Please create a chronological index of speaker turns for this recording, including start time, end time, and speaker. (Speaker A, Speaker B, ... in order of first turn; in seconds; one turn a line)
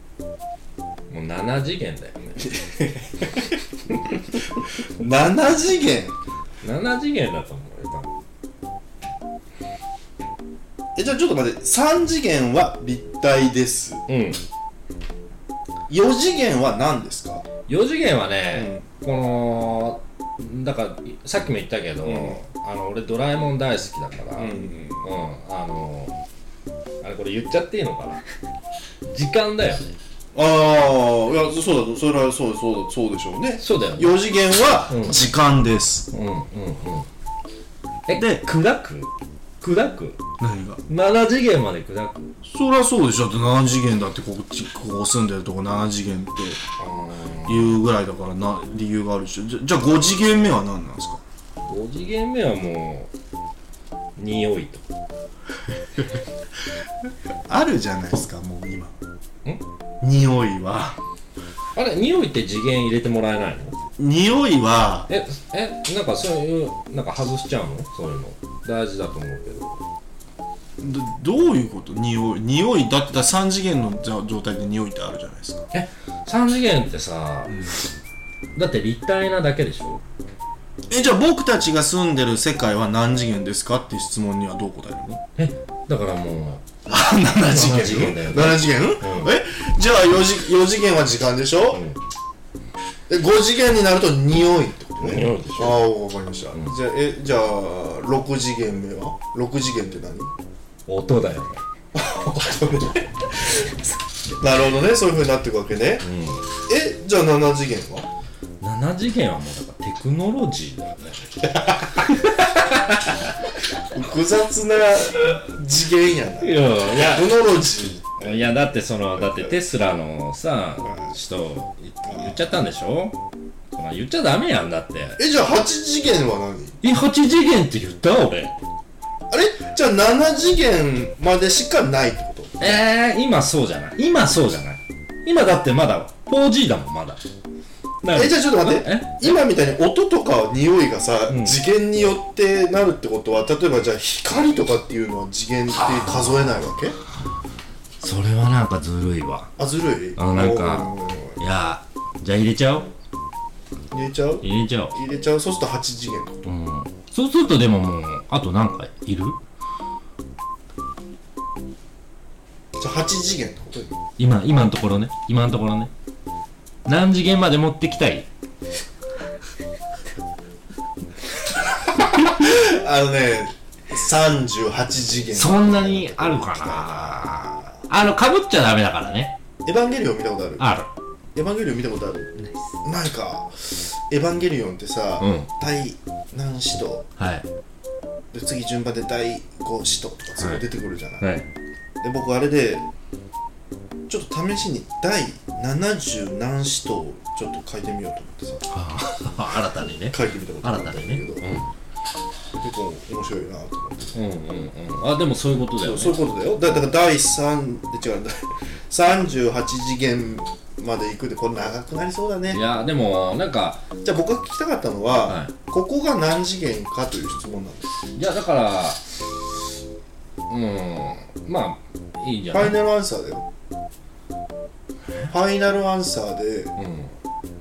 Speaker A: 1.1-2.5
Speaker B: 2.4-3.5
Speaker B: 4.5-6.2
Speaker A: 6.6-8.1
Speaker B: 10.9-14.0
Speaker A: 14.1-14.4
Speaker B: 15.9-17.4
Speaker A: 17.6-26.2
Speaker B: 18.5-18.8
Speaker B: 22.0-22.4
Speaker B: 24.4-25.1
Speaker A: 27.0-28.2
Speaker A: 29.1-29.9
Speaker B: 30.3-36.1
Speaker A: 33.6-34.1
Speaker A: 34.9-35.2
Speaker A: 36.1-37.1
Speaker A: 38.1-40.2
Speaker B: 38.1-38.4
Speaker B: 40.4-40.8
Speaker A: 40.9-42.3
Speaker B: 42.4-46.6
Speaker A: 46.8-47.8
Speaker B: 47.4-51.2
Speaker A: 51.6-53.1
Speaker A: 54.1-54.9
Speaker B: 57.5-58.9
Speaker B: 60.0-61.0
Speaker A: 61.7-63.8
Speaker B: 64.0-65.1
Speaker A: 65.1-69.8
Speaker B: 70.8-75.7
Speaker A: 75.7-77.7
Speaker A: 78.5-80.0
Speaker B: 80.9-85.2
Speaker A: 85.3-89.3
Speaker B: 86.9-91.8
Speaker A: 91.7-92.0
Speaker B: 93.1-100.3
Speaker A: 95.0-95.8
Speaker A: 100.9-101.6
Speaker B: 101.9-103.8
Speaker B: 104.4-106.0
Speaker A: 106.0-106.5
Speaker B: 106.7-108.1
Speaker A: 108.6-113.3
Speaker B: 113.8-118.5
Speaker A: 116.4-117.3
Speaker A: 118.2-123.2
Speaker B: 119.1-119.5
Speaker B: 120.8-121.1
Speaker B: 122.0-122.5
Speaker A: 123.7-125.2
Speaker B: 125.2-126.8
Speaker A: 126.8-128.6
Speaker B: 129.3-132.8
Speaker A: 132.6-137.2
Speaker A: 138.0-139.4
Speaker B: 138.1-147.0
Speaker A: 141.3-141.6
Speaker A: 145.8-146.5
Speaker A: 148.0-149.5
Speaker B: 149.6-151.4
Speaker A: 150.2-152.9
Speaker B: 153.9-156.4
Speaker A: 154.4-155.0
Speaker A: 156.4-159.4
Speaker B: 162.8-164.0
Speaker A: 164.2-165.9
Speaker A: 166.8-168.3
Speaker B: 172.0-177.7
Speaker A: 175.3-179.3
Speaker B: 179.6-180.8
Speaker A: 180.6-180.9
Speaker B: 181.3-187.0
Speaker A: 185.2-185.5
Speaker A: 187.2-187.4
Speaker B: 188.3-191.2
Speaker A: 190.4-190.6
Speaker A: 191.2-191.5
Speaker B: 192.0-192.8
Speaker B: 194.1-198.6
Speaker A: 198.7-201.7
Speaker B: 200.1-201.5
Speaker B: 202.5-204.2
Speaker A: 204.1-206.2
Speaker B: 205.7-212.6
Speaker A: 212.5-213.9
Speaker B: 214.0-217.9
Speaker A: 215.2-215.5
Speaker A: 218.1-219.1
Speaker A: 220.5-222.8
Speaker B: 222.5-223.5
Speaker B: 225.3-226.7
Speaker A: 226.8-227.1